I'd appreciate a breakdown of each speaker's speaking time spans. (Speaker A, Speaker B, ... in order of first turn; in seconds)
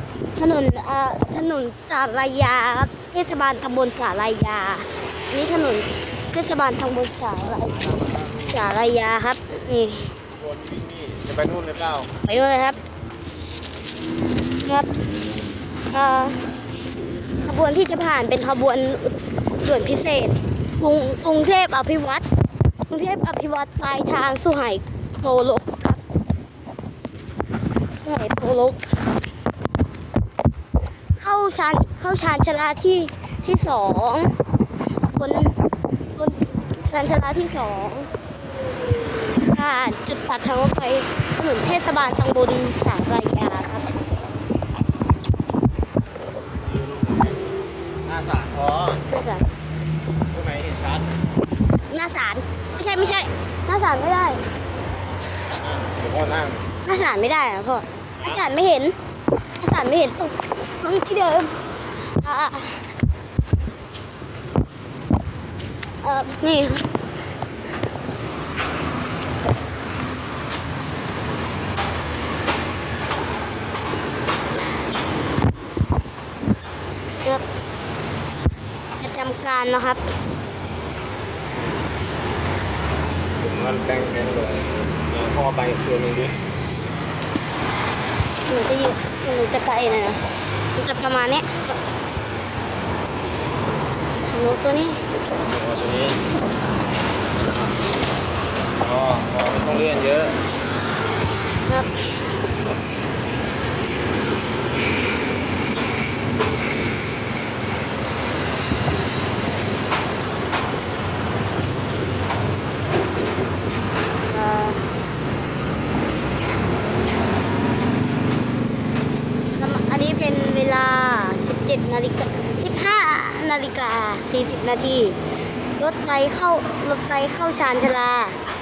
Speaker A: 0.4-10.1, 12.2-12.8, 14.6-15.0, 15.9-16.5, 17.4-22.3, 22.9-26.0, 28.0-29.0, 31.2-34.4, 35.0-35.6, 36.1-38.1, 39.4-44.0, 49.0-49.5, 51.9-54.4, 56.8-59.0, 59.6-61.5, 62.1-62.9, 66.0-66.9, 79.0-80.0, 88.5-90.2, 90.7-91.8, 94.3-95.0, 101.7-102.2, 114.3-114.9, 119.5-125.2, 125.8-128.4
Speaker B: 10.3-12.1, 48.0-49.0, 50.3-51.1, 55.6-56.6, 83.4-86.4, 95.4-96.2, 98.8-100.4